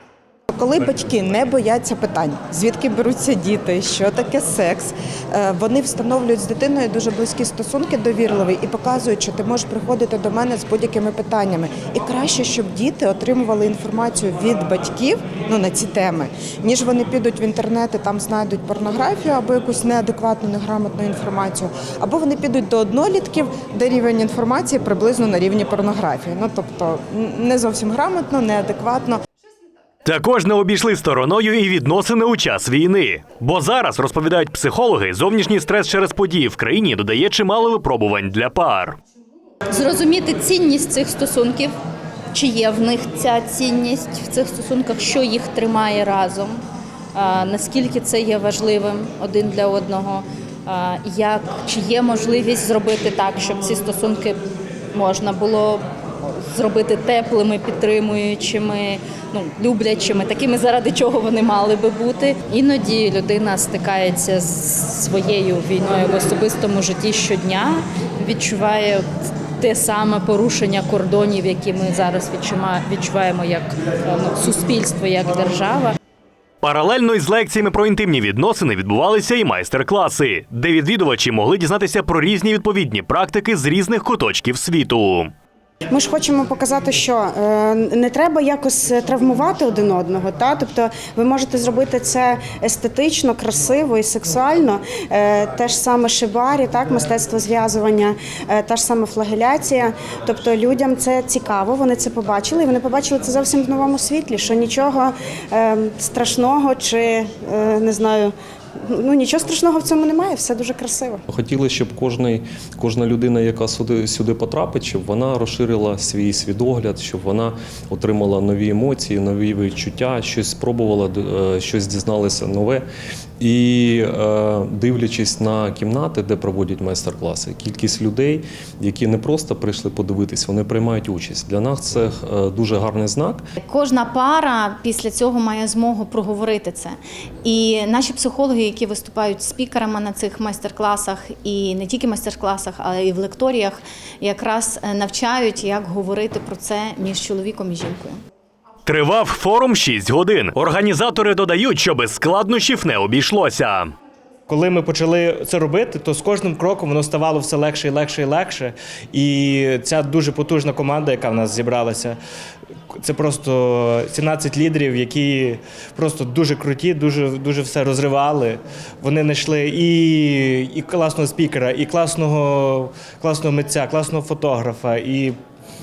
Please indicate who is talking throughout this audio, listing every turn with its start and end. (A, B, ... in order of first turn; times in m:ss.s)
0:00.5-0:29.2 A
0:30.0-0:39.0 B
0:39.7-0:41.7 C
0:42.3-0:46.6 C
0:47.2-0:54.4 C
0:54.9-0:55.8 C
0:56.4-1:09.0 C
1:09.6-1:16.0 C
1:16.6-1:25.3 B
1:25.9-1:48.3 D
1:48.9-1:51.2 D
1:51.3-2:02.8 E
2:03.4-2:13.5 E
2:13.6-2:28.2 F
2:28.8-2:33.9 B
2:34.5-2:42.2 G
2:43.0-2:55.4 G